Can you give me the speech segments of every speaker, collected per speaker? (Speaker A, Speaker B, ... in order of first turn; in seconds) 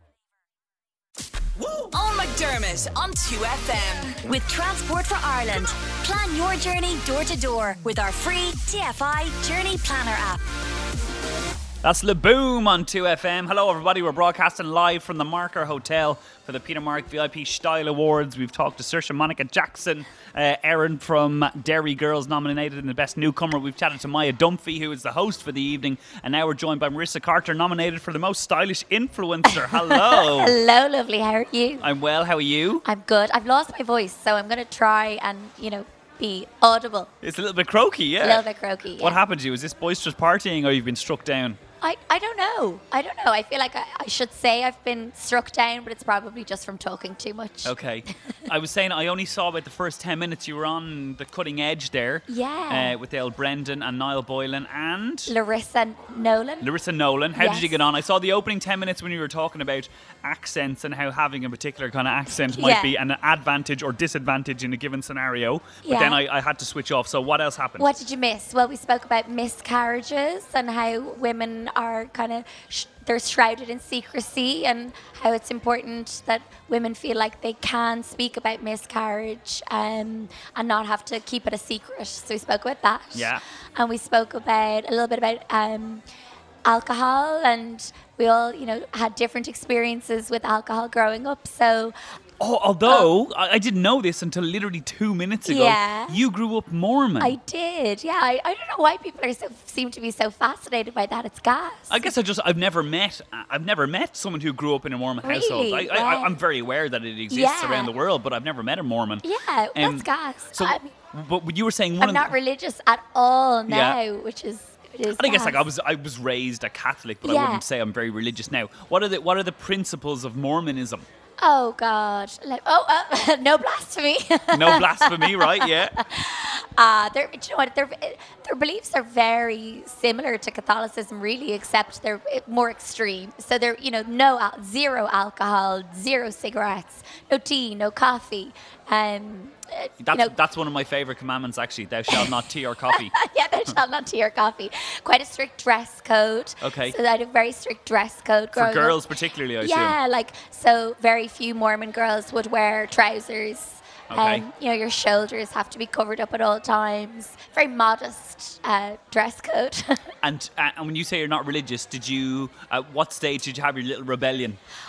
Speaker A: 1.9-10.4
Speaker B: 11.8-30.6, 31.8-32.8, 37.2-38.4, 39.0-41.6, 47.6-55.3, 56.6-68.0, 83.1-83.4, 92.4-97.4, 101.9-112.3, 113.7-114.0, 115.1-121.0, 124.5-126.0, 140.0-143.1, 146.6-146.9, 148.5-150.0, 154.1-154.4, 160.2-164.6
Speaker C: 29.5-31.9, 32.8-37.1, 38.2-39.2, 41.8-47.7, 52.3-53.0, 55.3-56.7, 57.3-57.8, 62.5-63.0, 65.8-66.2, 67.8-86.0, 86.6-91.9, 92.8-93.1, 95.4-96.2, 97.2-102.1, 105.2-106.4, 107.3-107.9, 109.2-110.9, 112.0-115.7, 117.2-117.6, 121.4-140.3, 142.1-142.3, 142.9-149.0, 149.6-160.1